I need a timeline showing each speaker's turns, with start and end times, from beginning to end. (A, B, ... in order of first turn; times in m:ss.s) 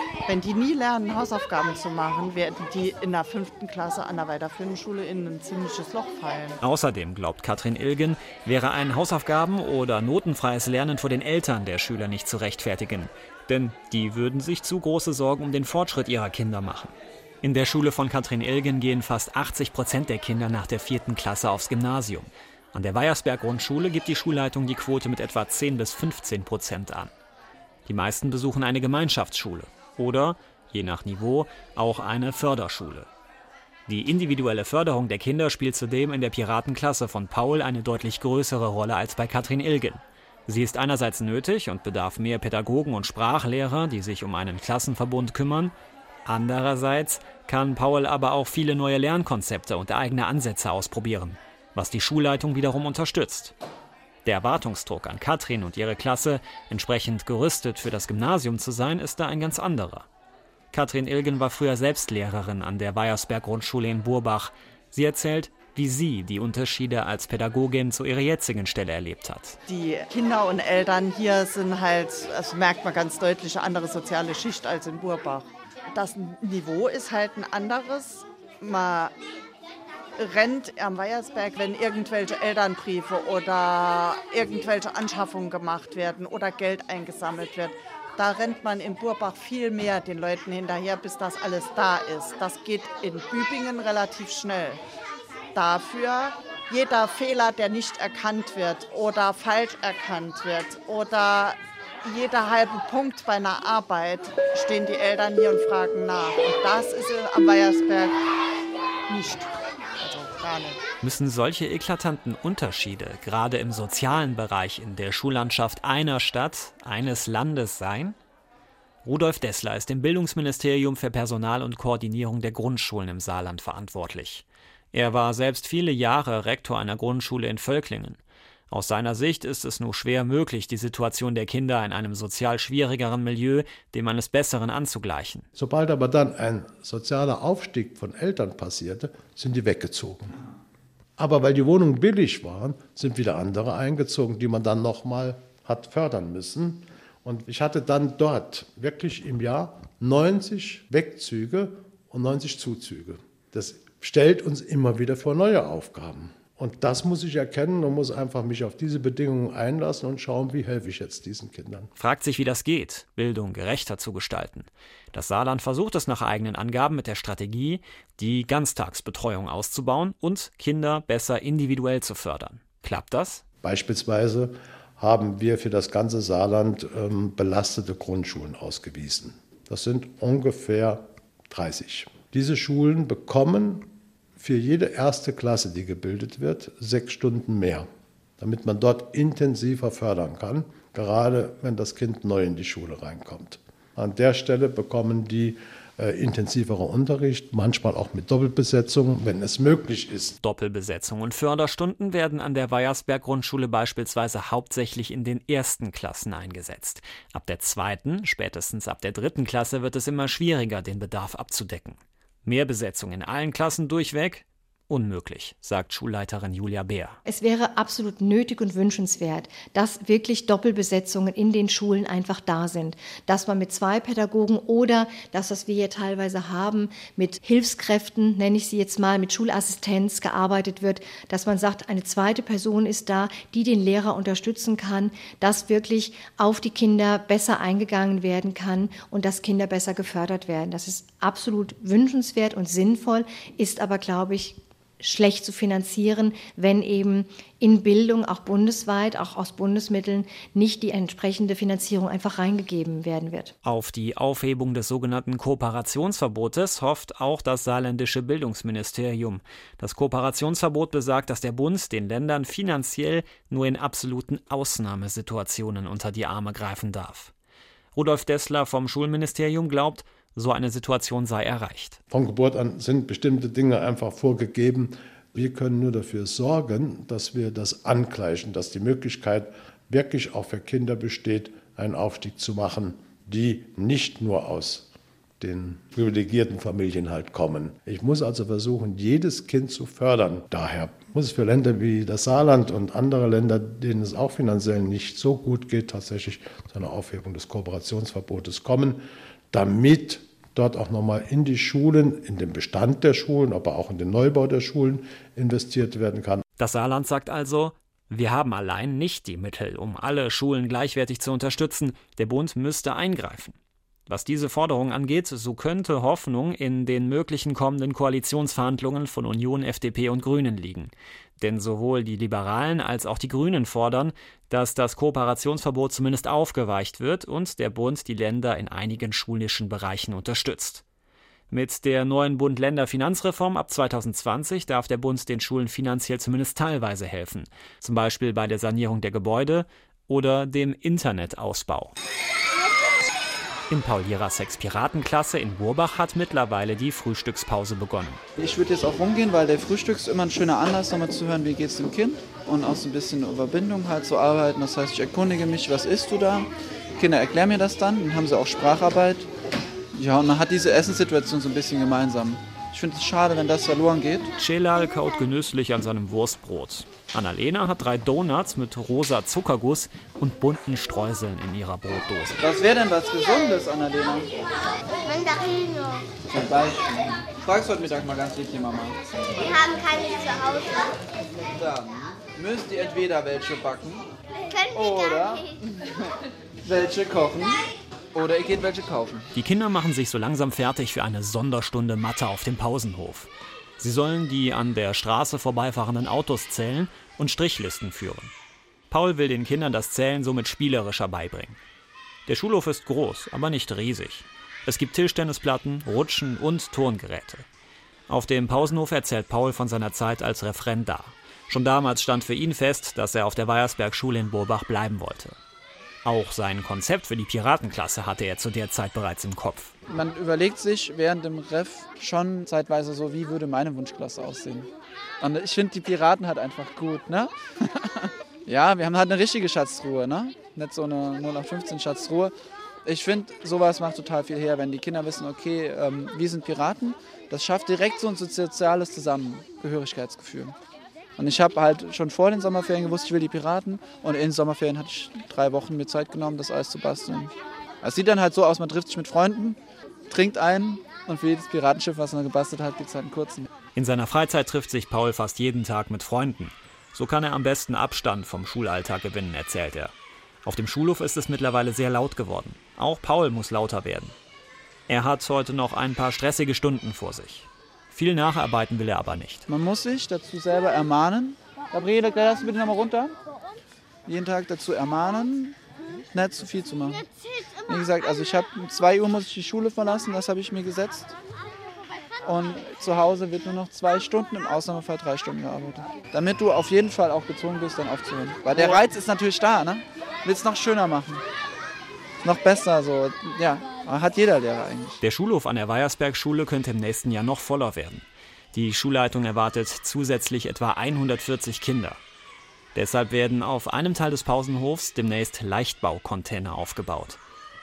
0:00.3-0:06.6 A
0:06.6-0:27.1 B
0:27.9-0:33.1 B
0:33.9-0:45.7 B
0:46.2-0:53.5 B
0:54.2-1:00.0 B
1:00.7-1:09.6 B
1:09.7-1:19.1 A
1:20.2-1:34.8 A
1:35.5-1:48.2 A
1:49.1-1:50.8 A
1:51.0-1:58.2 B
1:59.0-2:08.2 B
2:08.7-2:15.4 B
2:15.5-2:20.4 C
2:21.2-2:41.9 C
2:42.0-2:53.4 B
2:53.6-3:07.9 C
3:08.4-3:20.4 C
3:20.4-3:37.2 B
3:37.2-4:13.5 D
4:13.6-4:27.3 B
4:27.9-4:32.0 B
4:32.1-4:44.9 C
4:45.4-5:06.4 C
5:06.6-5:13.6 B
5:14.1-5:30.8 B
5:31.5-5:41.9 B
5:43.7-5:48.2 B
5:48.4-5:59.3 E
5:59.9-6:04.3 E
6:04.4-6:12.4 B
6:12.4-6:14.3 E
6:15.0-6:16.0 F
6:16.3-6:19.0 E
6:19.4-6:21.0 F
6:21.4-6:24.1 E
6:24.7-6:25.4 E
6:24.8-6:25.0 F
6:26.6-6:29.3 E
6:29.3-6:33.3 B
6:33.8-6:38.3 B
6:38.9-6:41.6 B
6:42.3-6:47.4 B
6:48.1-6:55.4 B
6:56.0-6:59.7 B
6:59.9-7:04.7 E
7:05.2-7:12.3 E
7:12.8-7:20.5 E
7:21.2-7:29.6 E
7:30.1-7:33.5 E
7:33.8-7:39.9 B
7:40.4-7:44.1 B
7:44.9-7:49.4 B
7:49.5-7:53.1 E
7:54.0-7:55.6 E
7:56.1-7:57.0 E
7:57.7-8:01.1 E
8:02.2-8:11.2 E
8:12.2-8:15.0 E
8:15.0-8:22.0 B
8:22.7-8:27.2 B